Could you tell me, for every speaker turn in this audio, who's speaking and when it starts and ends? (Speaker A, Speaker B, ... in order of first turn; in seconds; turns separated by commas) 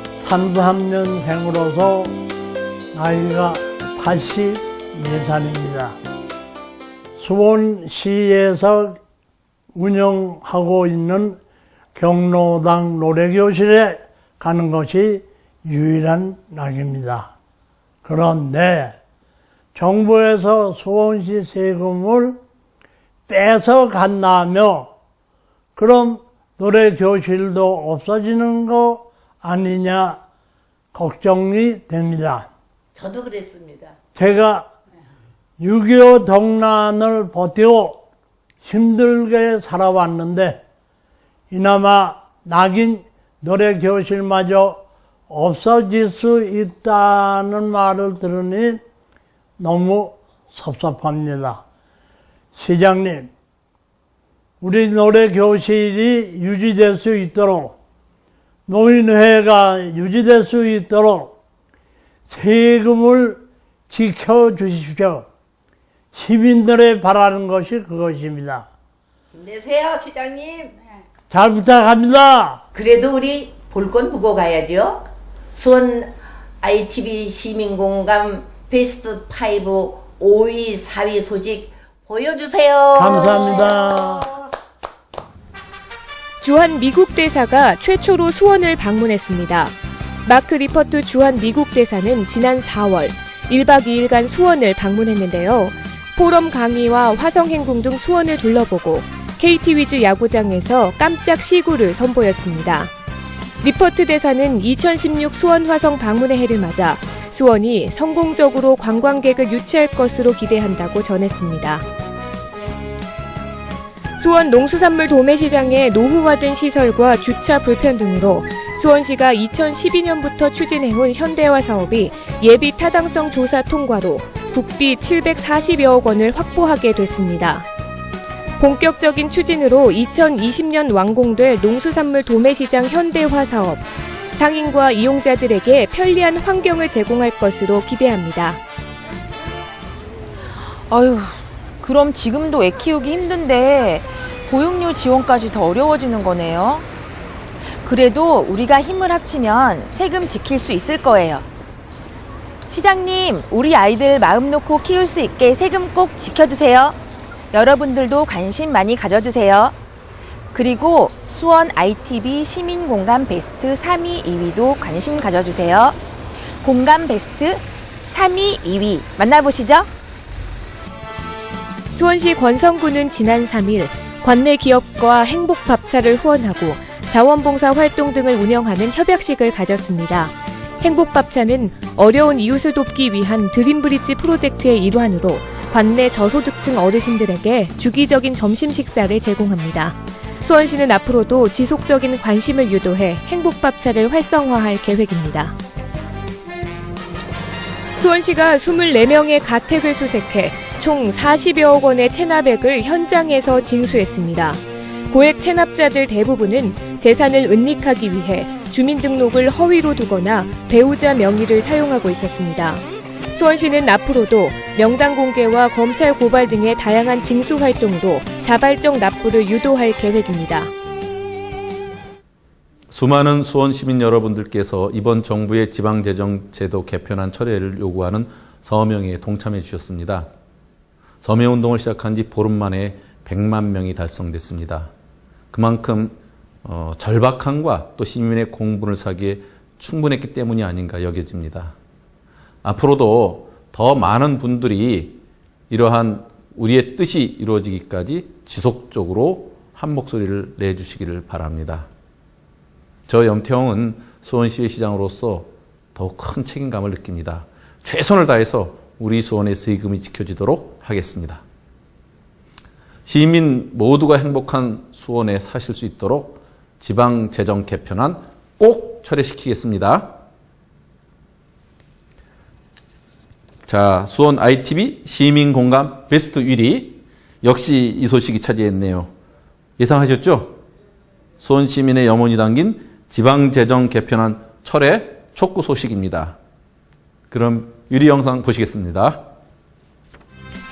Speaker A: 0.2-2.1, Speaker A: 2.9-6.0, Speaker A: 7.2-9.0, Speaker A: 9.7-11.4, Speaker A: 11.9-17.3, Speaker A: 18.0-18.9, Speaker A: 19.7-22.4, Speaker A: 23.3-24.9, Speaker A: 25.8-30.2, Speaker A: 30.9-32.5, Speaker B: 33.0-33.9, Speaker A: 34.1-34.7, Speaker A: 35.6-38.0, Speaker A: 38.6-40.6, Speaker A: 41.5-48.8, Speaker A: 49.6-51.6, Speaker A: 52.5-53.3, Speaker A: 54.6-57.7, Speaker A: 58.7-61.3, Speaker A: 62.3-65.2, Speaker A: 66.1-68.7, Speaker B: 69.3-70.7, Speaker A: 71.3-72.6, Speaker B: 72.7-83.9, Speaker A: 82.9-84.3, Speaker C: 86.4-102.9, Speaker C: 103.6-111.8, Speaker C: 114.2-127.7, Speaker C: 128.6-138.6, Speaker D: 140.9-146.8, Speaker D: 147.8-151.4, Speaker D: 152.7-157.0, Speaker D: 157.5-159.7, Speaker D: 160.5-166.0, Speaker D: 166.6-169.9, Speaker C: 171.9-195.5, Speaker C: 198.0-220.7, Speaker E: 222.9-230.3, Speaker E: 231.2-234.9, Speaker E: 235.5-241.7, Speaker E: 242.6-251.9, Speaker E: 253.1-261.4, Speaker E: 263.1-270.1, Speaker E: 273.7-279.1, Speaker E: 279.8-280.6, Speaker E: 281.4-286.4, Speaker E: 287.3-289.2